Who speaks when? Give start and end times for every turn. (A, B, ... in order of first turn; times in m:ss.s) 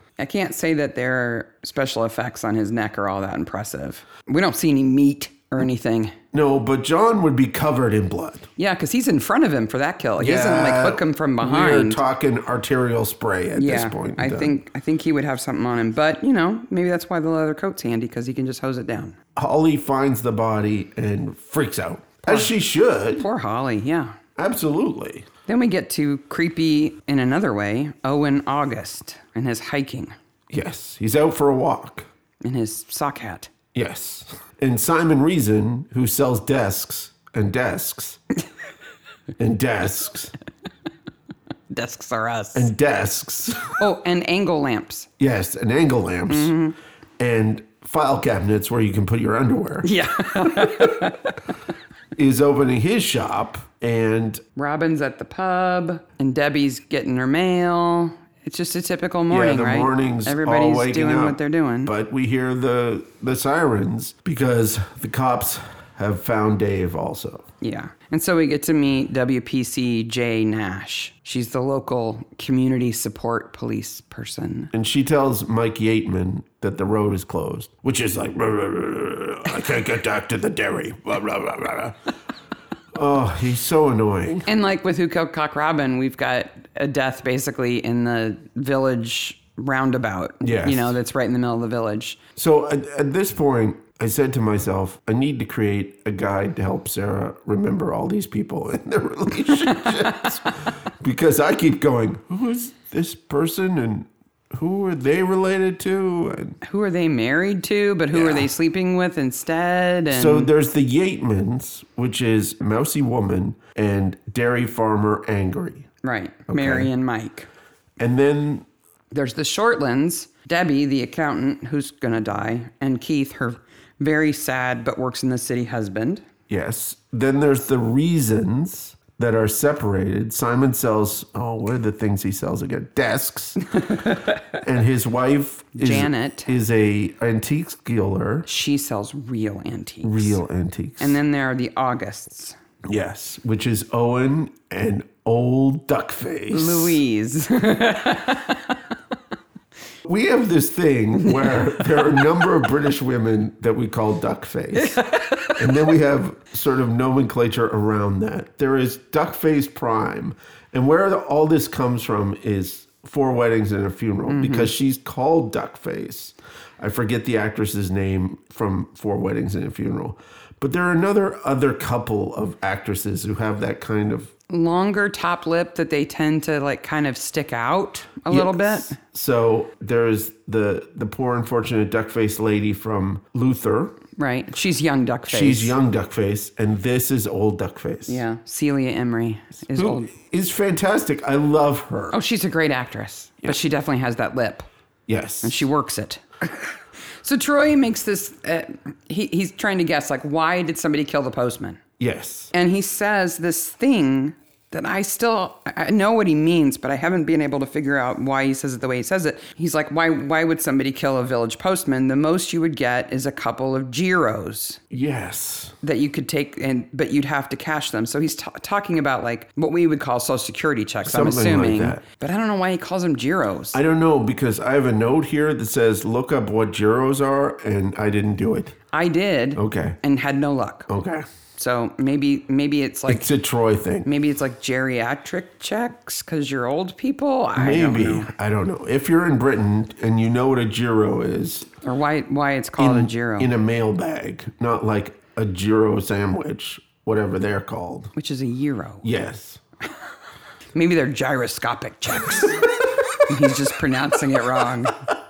0:00.2-0:06.1 A
0:06.3-0:08.5 B
0:08.6-0:12.0 A
0:10.2-0:14.5 B
0:13.6-0:19.2 A
0:19.4-0:23.3 B
0:23.2-0:24.2 A
0:24.4-0:25.3 B
0:25.5-0:30.1 A
0:30.5-0:32.1 B
0:32.4-0:33.5 A
0:33.7-0:38.2 B
0:39.4-0:40.3 B
0:41.7-0:42.7 A
0:42.5-0:43.8 B
0:43.8-0:45.1 A
0:45.2-0:46.5 B
0:46.3-0:46.8 A
0:47.2-0:49.9 B
0:49.8-0:51.4 A
0:52.2-0:54.4 B
0:54.6-1:01.9 A
0:59.3-1:07.4 B
1:07.6-1:14.7 A
1:14.7-1:22.0 B
1:22.9-1:24.5 B
1:24.4-1:32.2 A
1:30.4-1:30.9 B
1:32.4-1:46.6 B
1:46.6-1:50.5 A
1:48.1-1:48.5 B
1:50.1-1:55.9 B
1:56.0-1:57.5 A
1:56.5-1:56.9 B
1:58.0-1:58.7 B
1:59.1-2:06.2 A
2:06.5-2:13.7 B
2:13.8-2:14.5 A
2:14.5-2:18.5 B
2:15.8-2:16.5 A
2:18.5-2:20.4 A
2:20.0-2:21.2 B
2:21.0-2:22.6 A
2:22.8-2:27.0 B
2:26.5-2:28.8 A
2:30.0-2:54.3 B
2:31.4-2:32.2 A
2:34.7-2:35.7 A
2:44.3-2:44.7 A
2:54.5-2:59.0 A
2:58.3-3:04.0 B
3:04.2-3:05.7 A
3:05.3-3:08.2 B
3:08.1-3:10.1 A
3:09.7-3:12.2 B
3:12.1-3:14.7 A
3:15.1-3:15.6 B
3:15.4-3:21.8 A
3:22.0-3:22.5 B
3:22.5-3:34.8 A
3:34.9-3:35.7 B
3:35.8-3:43.8 A
3:41.0-3:42.0 B
3:43.7-3:48.8 B
3:48.9-3:50.9 A
3:49.6-3:50.0 B
3:50.9-3:51.2 B
3:51.6-3:53.3 A
3:53.1-3:54.1 B
3:54.0-3:58.3 A
3:57.6-4:01.7 B
4:01.8-4:03.5 A
4:02.8-4:08.1 B
4:08.1-4:09.1 A
4:09.0-4:09.6 B
4:10.7-4:15.0 A
4:12.4-4:13.5 B